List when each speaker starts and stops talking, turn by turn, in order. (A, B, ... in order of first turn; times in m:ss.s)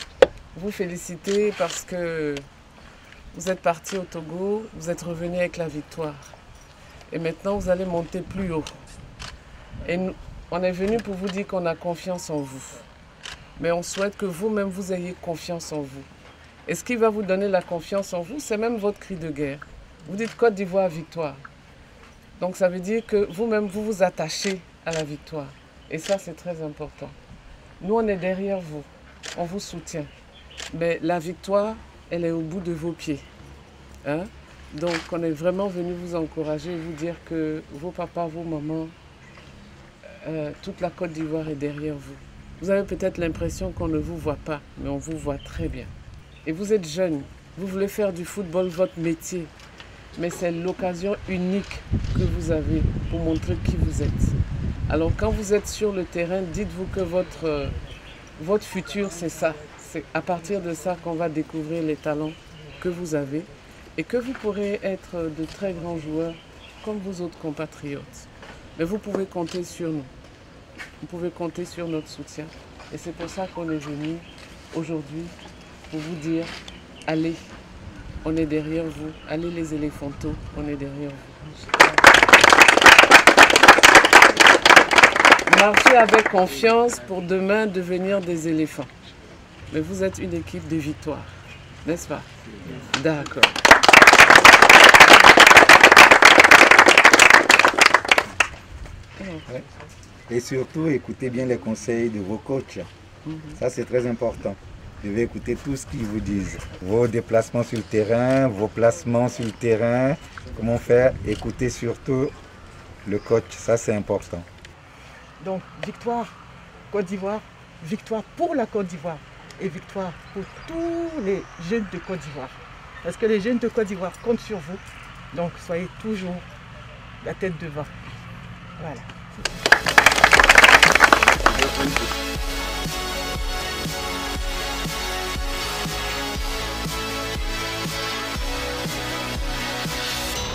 0:00.5-0:02.5 A
0:03.3-0:06.4 A
0:07.1-0:08.8 A
0:09.8-0:12.9 A
0:13.6-0:16.1 A
0:16.6-0:21.4 A
0:22.4-0:27.2 A
0:27.8-0:30.1 A
0:30.7-0:33.3 A
0:34.0-0:39.0 A
0:40.1-0:45.9 A
0:46.4-0:49.5 A
0:50.1-0:57.8 A
0:58.4-1:10.1 A
1:11.0-1:15.4 A
1:15.9-1:16.5 A
1:17.1-1:17.5 A
1:18.2-1:22.0 A
1:25.4-1:28.9 A
1:29.7-1:33.6 A
1:39.2-1:39.5 A
1:40.3-1:42.9 B
1:43.2-1:43.6 A
1:43.6-1:52.4 B
1:53.0-1:54.5 B
1:55.4-1:56.4 C
1:56.9-2:06.5 C
2:07.2-2:07.9 C
2:08.8-2:09.6 C
2:11.6-2:12.0 B